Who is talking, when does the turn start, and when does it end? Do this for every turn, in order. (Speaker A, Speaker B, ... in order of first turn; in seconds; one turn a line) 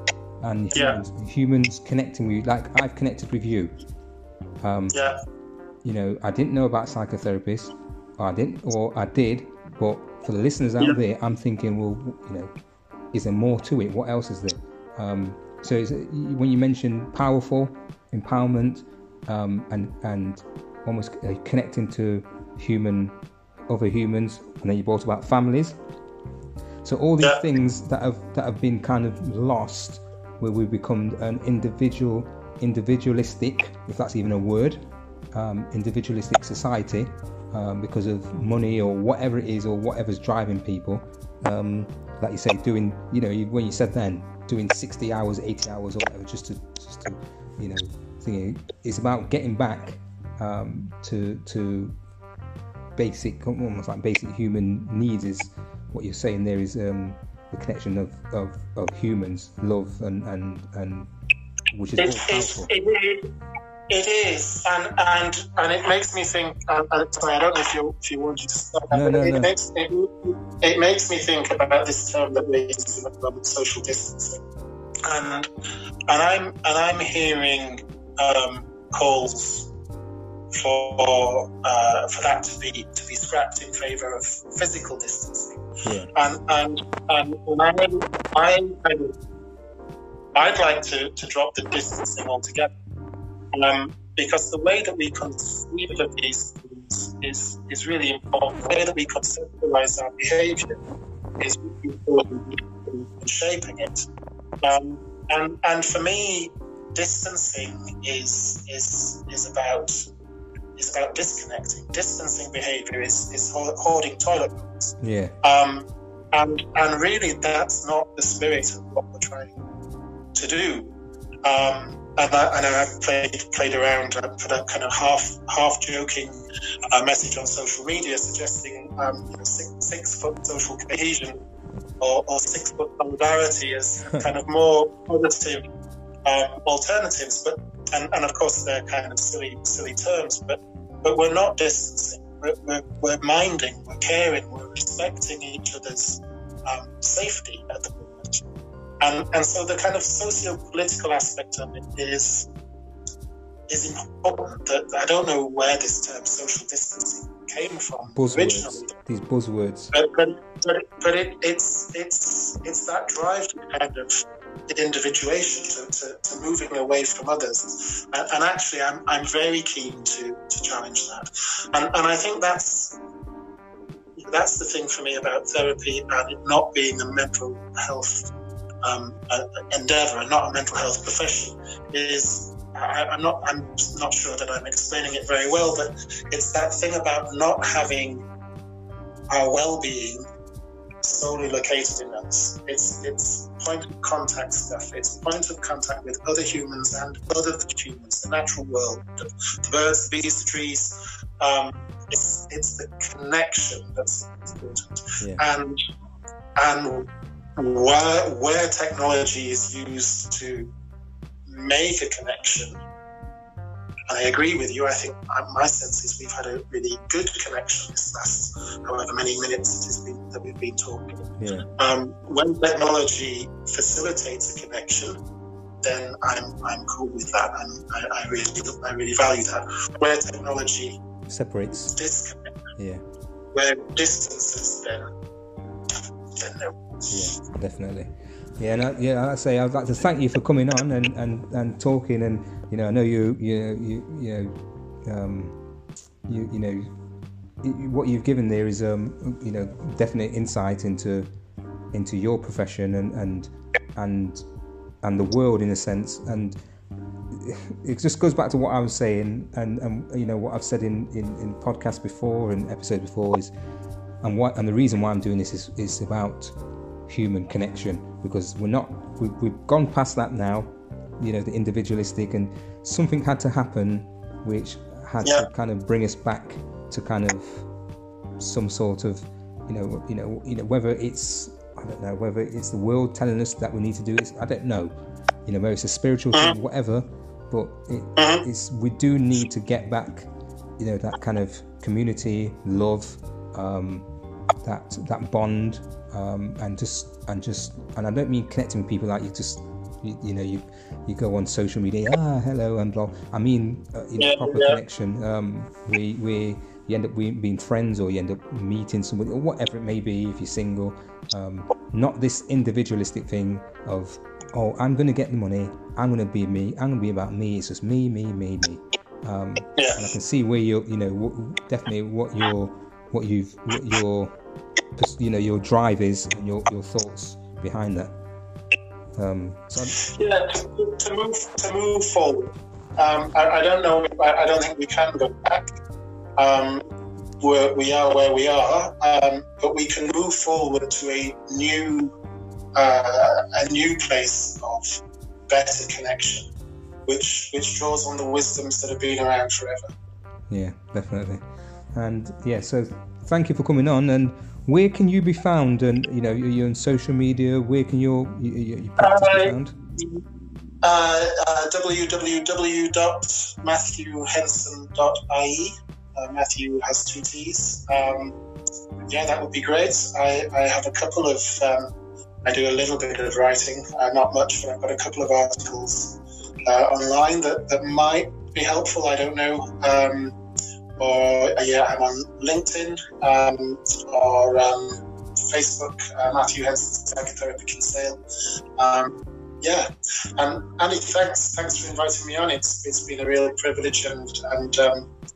Speaker A: 0.4-3.8
Speaker B: 0.7-1.0
Speaker A: 4.6-5.0
Speaker A: 5.8-12.5
Speaker A: 13.1-23.2
Speaker A: 23.7-25.8
Speaker A: 26.8-34.8
Speaker A: 35.3-52.0
Speaker A: 53.0-61.1
Speaker A: 61.7-62.7
Speaker B: 62.0-63.2
Speaker B: 63.9-74.4
Speaker A: 68.9-69.5
Speaker B: 75.1-75.5
Speaker B: 76.1-79.7
Speaker B: 80.5-85.6
Speaker B: 86.1-89.2
Speaker B: 90.3-92.7
Speaker B: 93.5-100.8
Speaker B: 101.4-104.1
Speaker B: 104.6-110.1
Speaker B: 110.8-119.6
Speaker A: 115.0-115.3
Speaker B: 120.3-131.4
Speaker B: 132.0-135.6
Speaker B: 136.3-148.4
Speaker B: 149.0-152.5
Speaker B: 153.7-158.9
Speaker A: 158.1-159.9
Speaker B: 159.9-173.0
Speaker B: 174.2-178.3
Speaker B: 178.8-188.2
Speaker B: 189.3-190.2
Speaker B: 191.0-205.8
Speaker B: 206.6-210.7
Speaker B: 211.5-212.8
Speaker B: 214.1-221.3
Speaker A: 221.4-221.7
Speaker B: 221.8-225.2
Speaker B: 225.8-231.0
Speaker A: 231.3-231.9
Speaker B: 231.9-232.6
Speaker A: 232.8-233.0
Speaker B: 233.5-235.1
Speaker B: 236.4-237.1
Speaker A: 237.1-244.5
Speaker A: 245.1-245.6
Speaker A: 246.3-246.9
Speaker A: 247.6-251.3
Speaker A: 251.9-254.4
Speaker A: 255.0-256.6
Speaker A: 257.3-263.5
Speaker A: 264.2-266.6
Speaker A: 267.1-277.7
Speaker A: 278.4-284.9
Speaker A: 285.5-294.1
Speaker B: 288.2-288.5
Speaker A: 294.6-324.4
Speaker B: 304.2-304.8
Speaker B: 319.8-320.1
Speaker A: 325.0-328.1
Speaker A: 329.2-330.0
Speaker B: 330.0-335.7
Speaker B: 336.4-336.8
Speaker B: 337.4-342.1
Speaker B: 342.8-346.5
Speaker B: 347.1-349.9
Speaker A: 350.5-359.8
Speaker B: 359.0-360.2
Speaker B: 360.8-368.4
Speaker B: 369.1-371.9
Speaker B: 372.5-380.4
Speaker B: 381.0-388.2
Speaker B: 388.8-395.1